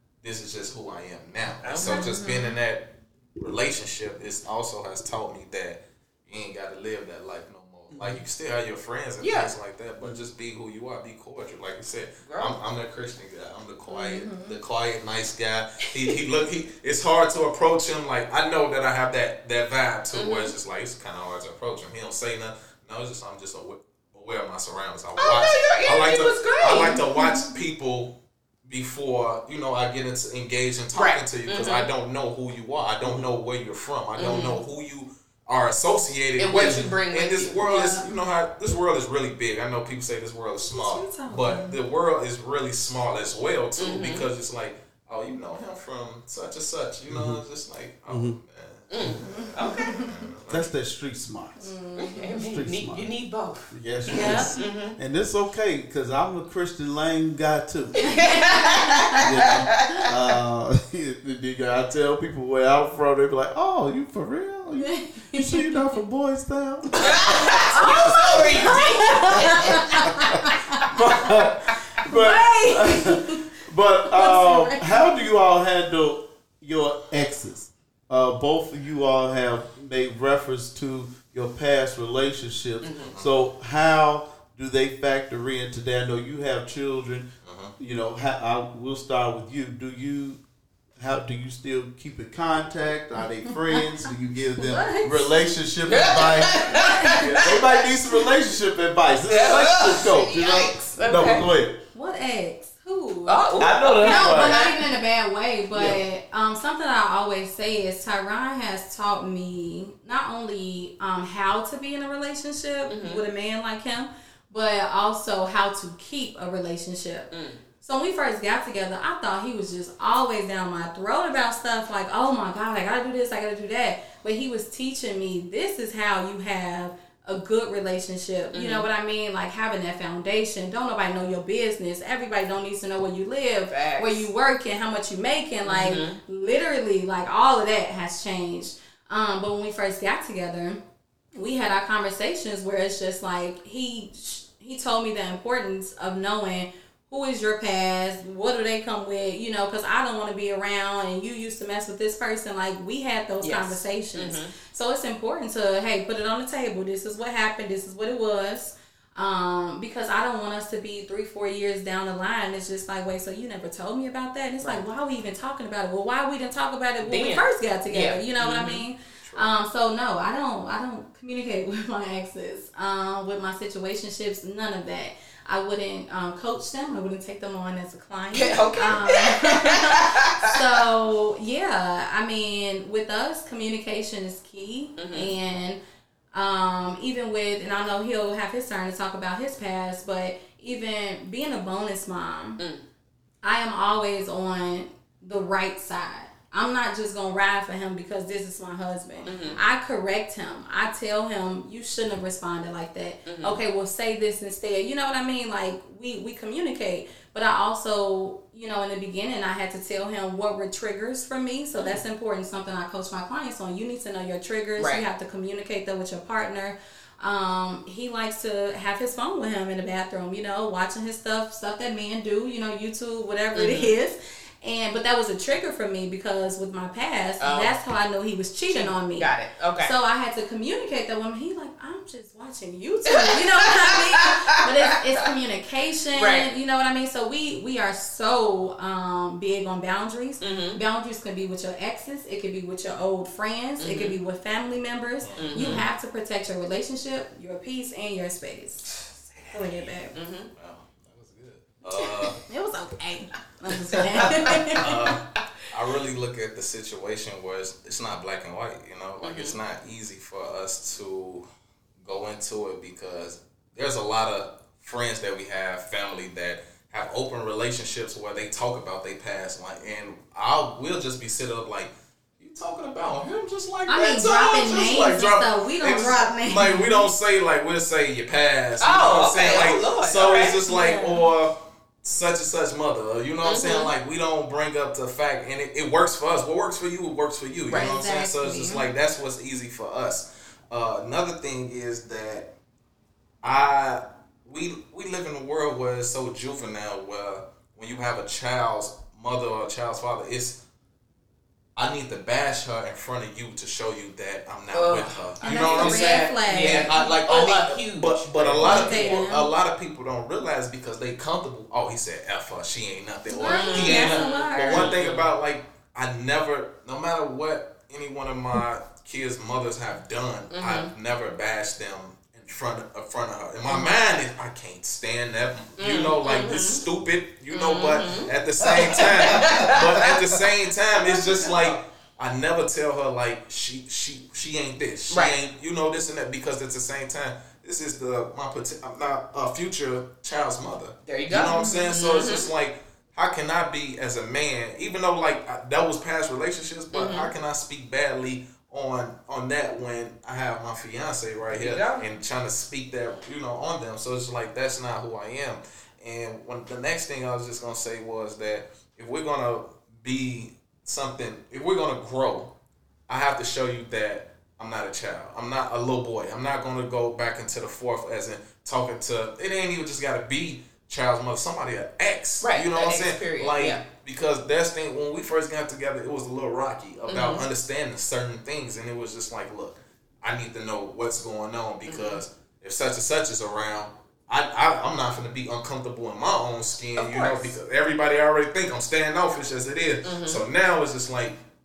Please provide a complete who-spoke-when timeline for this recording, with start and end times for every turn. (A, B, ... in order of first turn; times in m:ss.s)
0:00.2-0:50.7 A
0:01.6-0:02.1 B
0:01.8-0:02.6 C
0:07.9-0:08.2 B
0:09.2-0:09.5 B
0:12.2-0:12.6 B
0:13.9-0:14.6 C
0:20.1-0:20.5 B
0:25.2-0:27.0 B
0:26.8-0:27.5 C
0:30.9-0:31.9 B
0:34.2-0:34.6 B
0:36.4-0:37.6 B
0:37.6-0:38.1 C
0:40.7-0:41.8 C
0:43.8-0:44.3 B
0:47.1-0:47.4 D
0:48.1-0:48.4 D
0:48.9-0:50.1 B
0:49.2-0:50.1 C
0:50.5-0:51.8 D
0:51.6-0:52.4 C
0:52.0-0:55.0 B
0:52.3-0:53.1 D
0:53.7-0:58.1 D
0:54.1-0:54.6 C
0:58.0-1:00.1 B
0:58.0-0:59.3 C
0:59.2-1:30.4 D
1:04.8-1:06.0 C
1:07.0-1:10.1 B
1:07.7-1:10.8 C
1:12.1-1:13.4 C
1:14.1-1:15.0 C
1:22.8-1:23.1 B
1:23.0-1:23.3 A
1:27.4-1:27.7 A
1:31.0-1:41.8 D
1:34.6-1:35.3 C
1:35.9-1:37.7 B
1:36.7-1:37.2 C
1:39.3-1:41.5 B
1:41.9-1:43.4 C
1:43.3-1:44.9 B
1:43.6-1:44.6 D
1:44.0-1:57.3 C
1:45.7-1:46.0 D
1:52.9-1:53.2 B
1:57.3-1:57.6 B
1:57.8-2:20.8 C
2:08.5-2:08.9 B
2:13.7-2:14.3 B
2:15.7-2:16.2 B
2:21.4-3:05.8 C
2:33.4-2:34.5 B
2:47.0-2:48.8 B
2:49.2-2:49.5 A
2:58.3-3:00.6 B
3:05.0-3:05.3 B
3:06.3-3:12.6 C
3:12.6-3:12.8 B
3:13.4-3:49.3 C
3:19.3-3:19.6 B
3:19.3-3:19.6 A
3:23.3-3:23.6 B
3:34.8-3:35.0 B
3:43.6-3:43.9 B
3:47.4-3:47.8 B
3:48.7-3:49.9 B
3:49.8-4:09.0 C
3:53.1-3:54.9 B
3:56.1-3:56.5 B
4:00.4-4:00.8 B
4:03.8-4:04.2 B
4:05.2-4:05.8 A
4:05.4-4:05.8 B
4:09.5-4:10.2 C
4:10.2-4:10.5 B
4:10.6-4:12.5 A
4:12.5-4:14.8 C
4:14.2-4:21.4 A
4:14.2-4:15.2 B
4:19.2-4:19.6 B
4:22.0-4:52.5 A
4:33.9-4:37.1 C
4:38.8-4:40.6 B
4:40.7-4:41.3 C
4:43.4-4:43.9 B
4:47.7-4:48.0 B
4:47.7-4:48.9 C
4:53.4-5:00.6 A
5:01.8-6:02.5 A
5:04.7-5:09.3 B
5:05.4-5:07.0 C
5:08.6-5:09.5 C
5:13.3-5:14.9 C
5:13.4-5:15.3 B
5:20.5-5:20.9 B
5:23.7-5:23.9 B
5:25.8-5:26.8 B
5:27.5-5:30.2 B
5:29.6-5:29.9 D
5:31.1-5:31.7 B
5:35.1-5:35.4 B
5:41.0-5:42.5 B
5:41.5-5:42.0 C
5:46.9-5:47.3 B
5:51.5-5:52.1 B
6:03.1-6:31.4 A
6:12.4-6:13.8 B
6:17.1-6:17.5 B
6:21.9-6:22.2 B
6:27.0-6:27.5 B
6:30.0-6:30.4 B